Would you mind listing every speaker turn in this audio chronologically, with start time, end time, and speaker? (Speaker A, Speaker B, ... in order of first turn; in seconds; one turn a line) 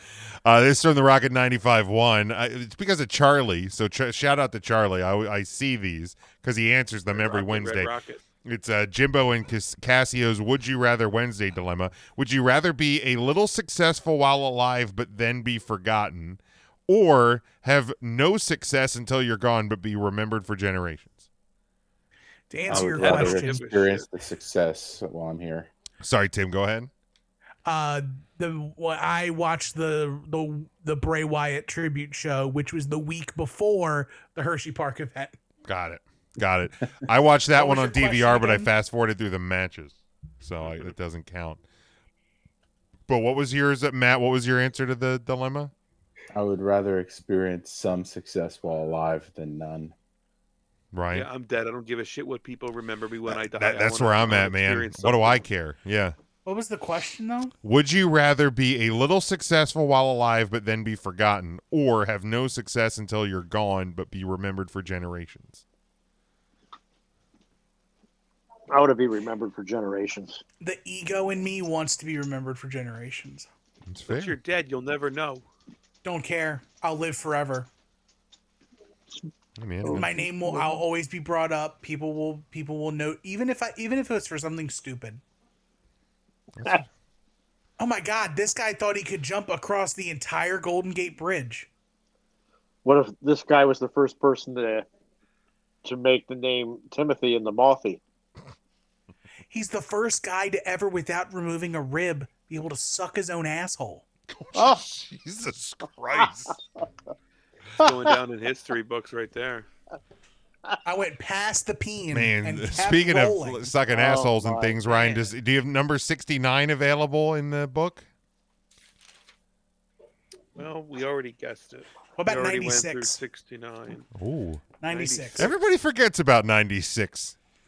Speaker A: 0.4-21.2
Speaker B: 7.1-8.2
Speaker C: 22.5-23.6
Speaker B: 22.6-24.1
Speaker D: 22.7-25.7
Speaker A: 26.0-26.9
Speaker C: 27.6-35.4
Speaker A: 35.6-41.6
Speaker C: 37.5-38.7
Speaker B: 40.6-40.9
Speaker A: 43.1-45.7
Speaker D: 46.3-49.9
Speaker A: 50.9-51.3
Speaker B: 51.1-55.4
Speaker A: 53.3-56.1
Speaker C: 56.4-57.5
Speaker A: 57.6-65.6
Speaker E: 68.7-70.4
Speaker C: 70.6-73.5
Speaker A: 73.8-74.4
Speaker B: 74.1-75.5
Speaker C: 76.0-77.7
Speaker A: 79.6-80.1
Speaker E: 79.8-80.8
Speaker C: 79.9-85.2
Speaker A: 86.5-86.9
Speaker C: 87.8-91.7
Speaker E: 92.8-94.8
Speaker E: 95.8-98.0
Speaker C: 99.5-104.0
Speaker A: 104.3-106.6
Speaker E: 104.5-104.8
Speaker B: 107.8-109.7
Speaker C: 110.8-113.7
Speaker A: 112.1-118.1
Speaker E: 113.9-114.8
Speaker B: 114.9-115.3
Speaker B: 120.5-124.1
Speaker C: 122.2-123.2
Speaker A: 124.1-124.7
Speaker C: 124.8-125.5
Speaker B: 124.9-125.5
Speaker A: 125.3-127.3